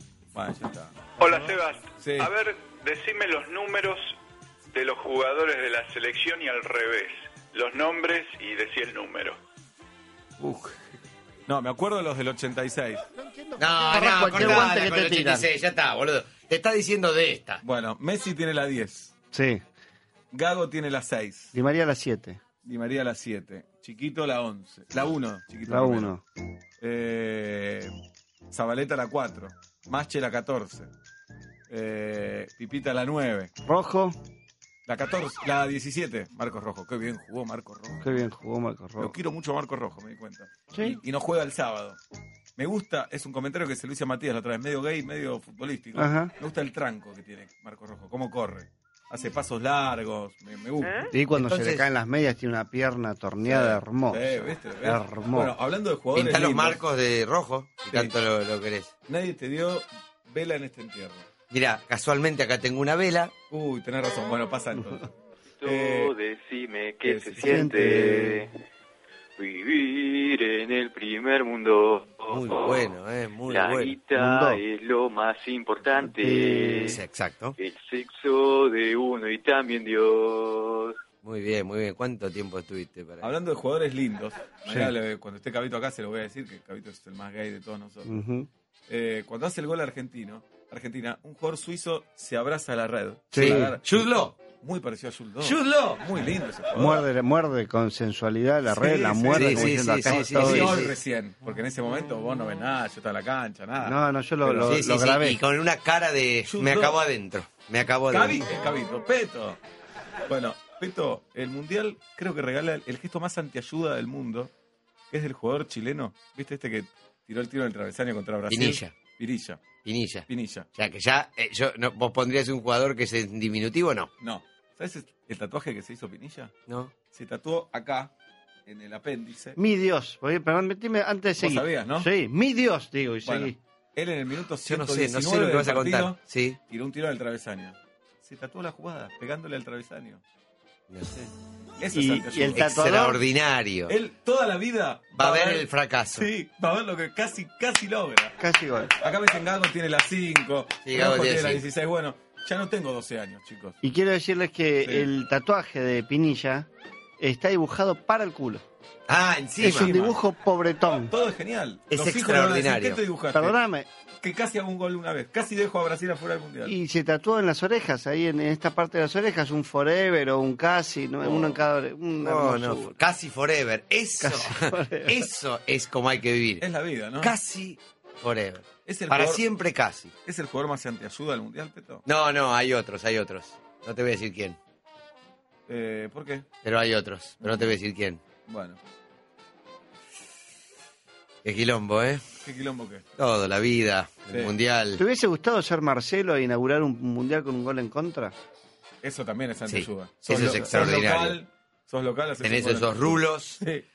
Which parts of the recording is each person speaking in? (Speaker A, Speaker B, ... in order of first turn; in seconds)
Speaker A: 0.3-1.2, 2.0-2.3, 10.4-10.8, 11.5-13.1, 17.6-19.1, 20.3-21.5, 22.6-26.1, 26.8-27.9, 28.5-30.9, 31.7-33.5, 34.9-38.2, 39.0-42.0, 42.6-51.0, 53.5-56.8, 59.1-61.3, 63.5-66.1, 67.0-67.9, 83.2-88.2, 88.9-97.1, 98.7-104.8, 106.5-107.0, 108.1-109.6, 110.3-114.5, 115.1-119.7, 120.3-120.7, 124.2-126.5, 127.1-128.1, 128.7-129.6, 131.4-132.1, 133.2-140.2, 141.8-142.9, 143.9-148.4, 149.0-153.8, 159.6-160.2, 161.1-163.6, 164.2-166.8, 171.2-171.6, 176.6-177.3, 178.9-179.4, 180.2-182.1, 185.7-186.5, 187.4-187.8, 188.5-188.8, 192.4-193.1, 199.0-203.8
Speaker B: 1.2-4.2, 4.7-9.4
Speaker C: 13.2-15.5, 19.3-19.6, 21.5-22.4, 25.7-26.2, 33.6-34.2, 38.0-39.1, 40.7-41.0, 46.0-46.3, 51.1-55.5, 67.4-68.5, 74.2-74.6, 76.0-77.0, 88.1-88.5, 93.3-93.8, 96.7-100.7, 103.8-105.4, 129.6-133.6, 141.9-143.2, 148.4-148.9, 153.8-156.7, 157.2-158.7, 159.6-161.1, 163.3-163.9, 166.7-172.9, 174.2-175.3, 195.0-198.3
Speaker D: 13.6-17.6, 51.4-51.9, 56.1-58.9, 61.5-63.3, 72.3-74.0, 76.9-77.6, 81.2-83.3, 93.3-94.3, 95.4-96.0, 99.3-100.9, 104.6-108.5, 118.5-119.0, 119.8-124.1, 126.7-126.9, 134.7-136.6, 140.9-141.2, 142.5-143.9, 145.2-146.3, 150.8-151.6, 159.1-159.9, 161.9-163.0, 172.2-176.7, 177.2-180.1, 182.1-184.6, 186.6-188.2, 191.4-192.2, 193.2-195.0, 199.7-201.4, 202.4-203.6
Speaker E: 65.6-68.5, 69.4-72.8, 73.5-77.0, 77.6-81.0